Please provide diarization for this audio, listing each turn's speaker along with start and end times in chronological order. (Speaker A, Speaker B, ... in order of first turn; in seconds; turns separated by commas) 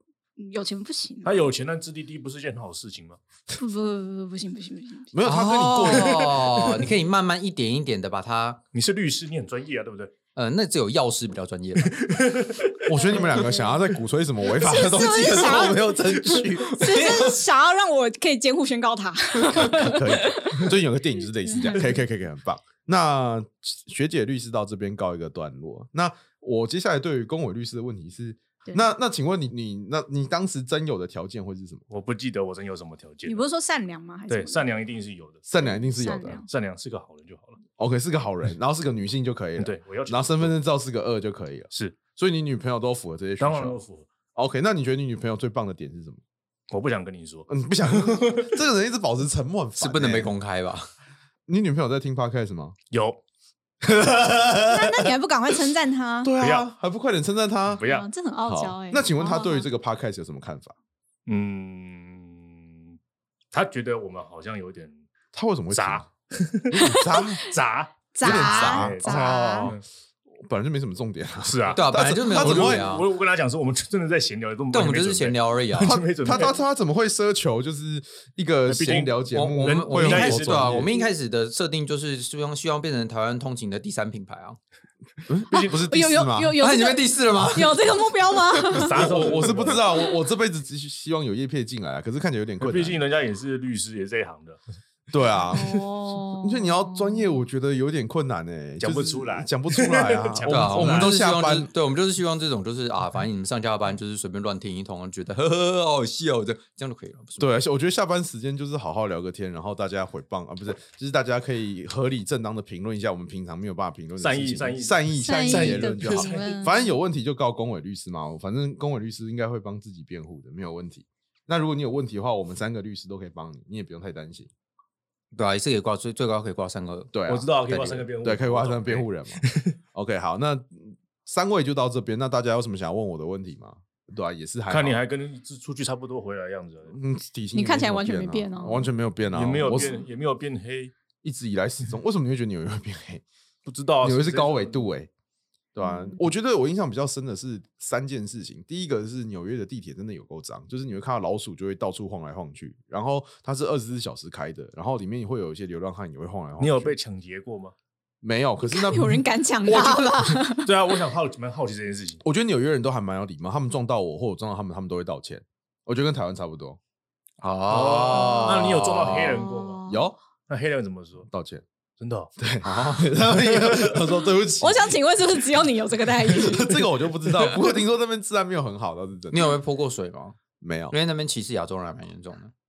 Speaker A: 0.4-1.4, Speaker B: 1.2-3.2, Speaker A: 3.5-5.1, Speaker C: 5.1-6.6, Speaker D: 5.2-8.6, Speaker B: 8.7-10.1, Speaker D: 10.3-12.0, Speaker B: 11.8-13.4, Speaker C: 12.8-17.3, Speaker A: 13.0-13.8, Speaker A: 14.4-20.7, Speaker D: 15.4-15.7, Speaker D: 16.3-17.3, Speaker C: 19.4-31.8, Speaker A: 21.4-22.0, Speaker B: 31.9-33.4, Speaker A: 33.2-34.6, Speaker B: 34.3-35.4, Speaker C: 35.5-36.4, Speaker A: 36.0-36.5, Speaker B: 36.5-37.6, Speaker C: 37.8-43.8, Speaker B: 39.6-40.5, Speaker B: 41.7-42.0, Speaker B: 43.4-44.1, Speaker C: 44.3-46.2, Speaker B: 46.7-48.6, Speaker C: 47.5-50.3, Speaker D: 49.8-50.9, Speaker C: 51.5-52.8, Speaker B: 52.9-53.2, Speaker C: 53.8-55.1, Speaker A: 54.6-56.3, Speaker C: 56.2-57.8, Speaker B: 56.4-56.6, Speaker B: 57.7-58.1, Speaker A: 57.8-59.7, Speaker C: 58.5-60.7, Speaker B: 61.2-63.0, Speaker B: 63.5-65.0, Speaker C: 65.3-66.1, Speaker B: 65.7-66.9, Speaker C: 66.7-67.4, Speaker A: 66.8-67.4, Speaker B: 67.5-69.8, Speaker A: 68.1-69.7, Speaker C: 68.2-69.8, Speaker C: 70.4-72.9, Speaker B: 71.4-76.6, Speaker D: 71.7-73.1, Speaker D: 74.7-76.0, Speaker C: 75.8-80.9, Speaker B: 78.7-81.0, Speaker D: 79.3-84.6, Speaker C: 85.3-86.6, Speaker A: 85.5-89.3, Speaker D: 86.6-88.0, Speaker B: 88.7-89.8, Speaker C: 88.8-93.0, Speaker B: 92.6-94.6, Speaker C: 95.1-101.7, Speaker A: 95.5-97.4, Speaker B: 98.8-101.1, Speaker D: 100.5-107.5, Speaker C: 107.4-124.5, Speaker B: 114.2-116.6, Speaker A: 115.2-116.9, Speaker D: 125.3-128.1, Speaker C: 127.1-127.5, Speaker B: 127.3-129.7, Speaker C: 128.2-129.4, Speaker C: 129.9-135.0, Speaker B: 134.7-137.0, Speaker C: 136.9-140.0, Speaker A: 137.5-138.9, Speaker B: 139.3-140.9, Speaker A: 139.7-140.0, Speaker C: 141.2-143.2, Speaker B: 143.7-144.8, Speaker C: 144.0-145.1, Speaker C: 145.7-156.9, Speaker A: 145.8-146.2, Speaker B: 156.6-157.7, Speaker C: 158.2-160.0, Speaker A: 158.6-160.7, Speaker B: 159.7-162.2, Speaker C: 162.2-166.8, Speaker D: 167.4-169.4, Speaker B: 167.7-169.8, Speaker A: 169.2-170.1, Speaker C: 169.8-170.2, Speaker B: 170.5-171.3, Speaker C: 171.3-171.6, Speaker B: 172.0-174.0, Speaker C: 172.4-175.0, Speaker A: 174.6-177.2, Speaker C: 176.2-179.6, Speaker D: 179.3-180.4, Speaker C: 180.6-180.9, Speaker D: 180.9-182.5